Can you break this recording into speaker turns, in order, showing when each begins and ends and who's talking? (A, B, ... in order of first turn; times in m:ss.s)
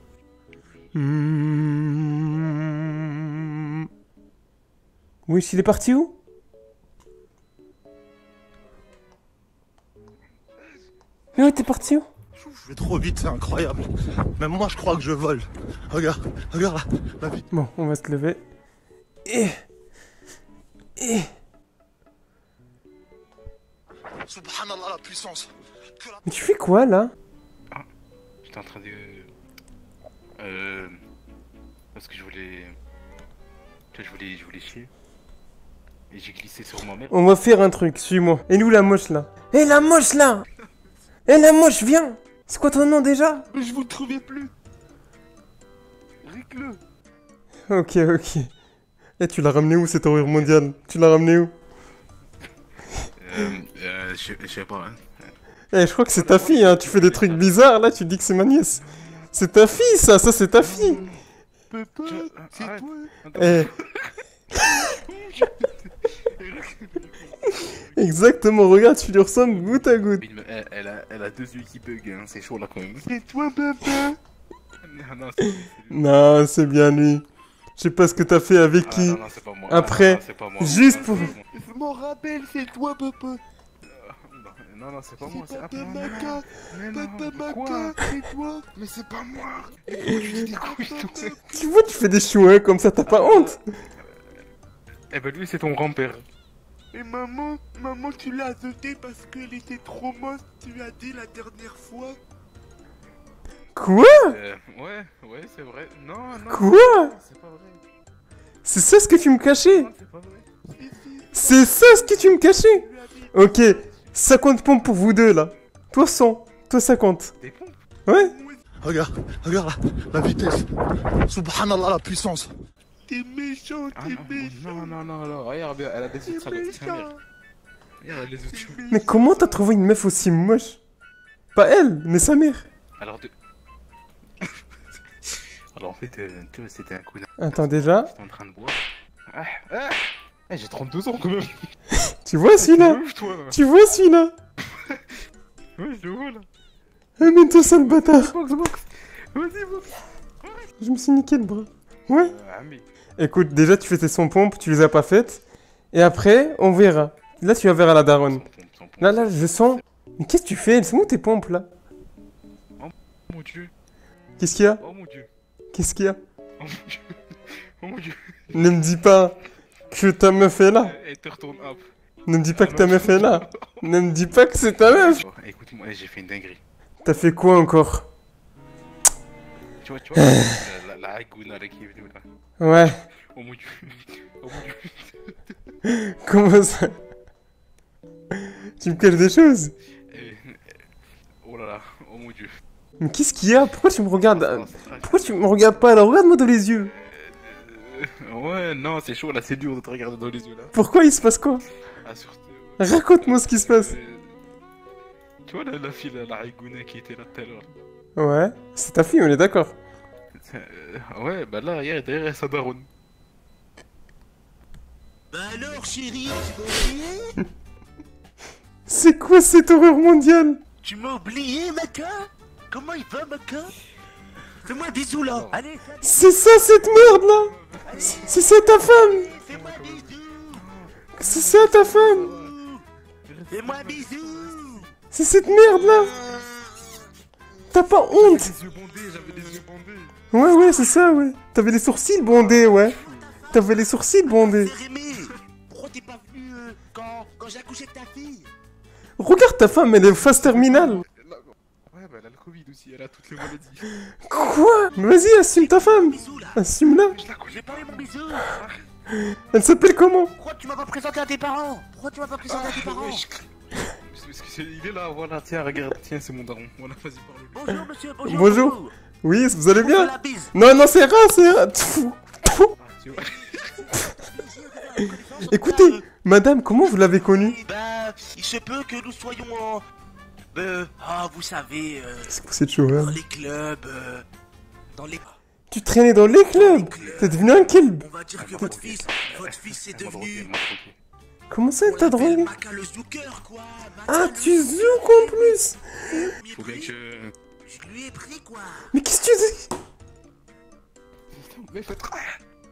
0:00.9-0:03.9 A
0:05.3-0:06.2 A
0:11.4-0:11.8 B
0:11.4-0:12.1 A
0:12.7-0:17.4 C
0:17.5-0:18.4 A
0:19.2-0:19.6 A
0:21.0-0:21.3 A
0:24.2-0:26.2 C
0:26.2-0:27.1 A
0:28.4-0:29.3 B
0:30.4-0:31.0 B
0:31.9-0:32.8 B
0:33.9-0:34.9 B
0:36.1-0:37.1 B
0:37.1-0:40.5 A
0:41.3-0:43.5 A
0:43.5-0:44.5 D
0:46.2-0:46.8 D
0:47.7-0:48.5 A
0:49.2-0:51.5 A
0:53.2-0:55.3 B
0:55.7-1:01.0 A
0:56.1-0:57.6 B
0:58.9-0:59.2 B
1:00.6-1:01.2 B
1:01.7-1:03.1 D
1:02.1-1:04.2 B
1:03.4-1:03.7 A
1:04.8-1:08.2 B
1:07.9-1:10.2 A
1:10.2-1:13.1 B
1:13.0-1:14.2 D
1:14.8-1:16.3 B
1:15.9-1:17.3 A
1:17.8-1:21.4 A
1:18.8-1:21.5 B
1:20.7-1:23.4 D
1:23.8-1:28.0 B
1:25.2-1:28.7 D
1:28.8-1:31.4 B
1:30.1-1:31.4 D
1:31.5-1:33.6 A
1:33.1-1:33.6 B
1:35.1-1:36.2 B
1:36.9-1:42.2 D
1:43.8-1:44.4 A
1:44.3-1:47.8 B
1:46.5-1:47.1 A
1:48.6-1:49.9 A
1:49.5-1:50.5 B
1:50.7-1:53.3 D
1:51.3-1:57.3 A
1:57.4-1:57.8 B
1:58.1-1:58.3 A
1:58.3-1:58.6 D
1:58.8-2:02.5 C
2:03.1-2:05.0 D
2:04.0-2:07.1 B
2:06.2-2:07.2 D
2:08.0-2:08.8 B
2:08.5-2:09.6 D
2:08.9-2:10.8 A
2:11.6-2:12.7 A
2:13.0-2:13.3 B
2:15.7-2:21.7 B
2:17.4-2:18.1 A
2:21.9-2:24.3 A
2:22.6-2:23.6 B
2:24.8-2:25.0 B
2:25.8-2:26.5 B
2:27.2-2:28.3 A
2:27.6-2:30.7 B
2:30.8-2:32.3 A
2:32.1-2:32.8 B
2:33.2-2:38.4 A
2:38.1-2:39.8 B
2:39.0-2:41.7 A
2:42.8-2:43.7 B
2:44.4-2:44.8 A
2:44.8-2:45.3 B
2:45.7-2:46.2 A
2:46.6-2:47.2 B
2:47.8-2:48.8 B
2:48.5-2:49.4 A
2:49.9-2:51.0 A
2:50.8-2:51.9 B
2:52.3-2:55.2 A
2:52.5-2:53.9 B
2:54.9-2:56.6 B
2:57.0-2:58.1 A
2:59.8-3:02.2 B
3:00.2-3:00.5 A
3:02.6-3:03.0 A
3:03.3-3:05.5 B
3:05.8-3:07.0 A
3:08.3-3:09.7 A
3:10.1-3:10.8 B
3:11.4-3:12.6 B
3:13.0-3:16.9 A
3:14.1-3:15.6 B
3:16.9-3:20.8 B
3:20.7-3:21.6 A
3:22.0-3:24.4 B
3:22.8-3:24.0 A
3:25.5-3:27.7 B
3:28.2-3:29.7 A
3:30.4-3:32.9 B
3:35.3-3:37.4 D
3:38.9-3:40.6 A
3:40.8-3:43.8 D
3:44.6-3:46.3 D
3:45.3-3:45.6 B
3:46.0-3:49.3 A
3:46.7-3:48.4 B
3:47.9-3:48.3 D
3:49.1-3:50.6 D
3:49.5-3:52.6 B
3:51.2-3:52.4 A
3:52.1-3:52.8 D
3:53.2-3:54.9 B
3:53.5-3:54.9 D
3:55.1-3:56.1 A
3:55.8-3:56.9 D
3:57.7-3:58.5 A
3:58.1-4:00.2 B
4:00.3-4:03.0 A
4:02.3-4:03.6 B
4:02.8-4:03.6 D
4:03.5-4:04.7 A
4:04.3-4:08.5 D
4:05.1-4:05.4 B
4:09.2-4:11.0 A
4:10.2-4:13.9 B
4:14.2-4:17.2 A
4:15.5-4:16.6 D
4:16.8-4:19.1 B
4:17.5-4:18.5 D
4:19.3-4:20.3 A
4:20.3-4:23.3 D
4:22.4-4:23.5 B
4:24.1-4:27.8 B
4:27.5-4:28.9 D
4:28.2-4:32.7 A
4:29.7-4:30.5 D
4:32.8-4:34.0 B
4:33.1-4:36.0 D
4:35.4-4:37.6 A
4:37.3-4:39.8 D
4:40.5-4:44.3 D
4:42.3-4:43.2 A
4:44.9-4:45.4 D
4:45.7-4:48.1 A
4:46.5-4:50.5 D
4:46.9-4:47.8 B
4:48.4-4:51.0 B
4:51.5-4:52.5 A
4:51.8-4:56.9 D
4:54.1-4:56.3 A
4:56.4-4:57.3 B
4:57.6-4:58.9 D
4:58.9-4:59.7 A
5:01.3-5:02.4 B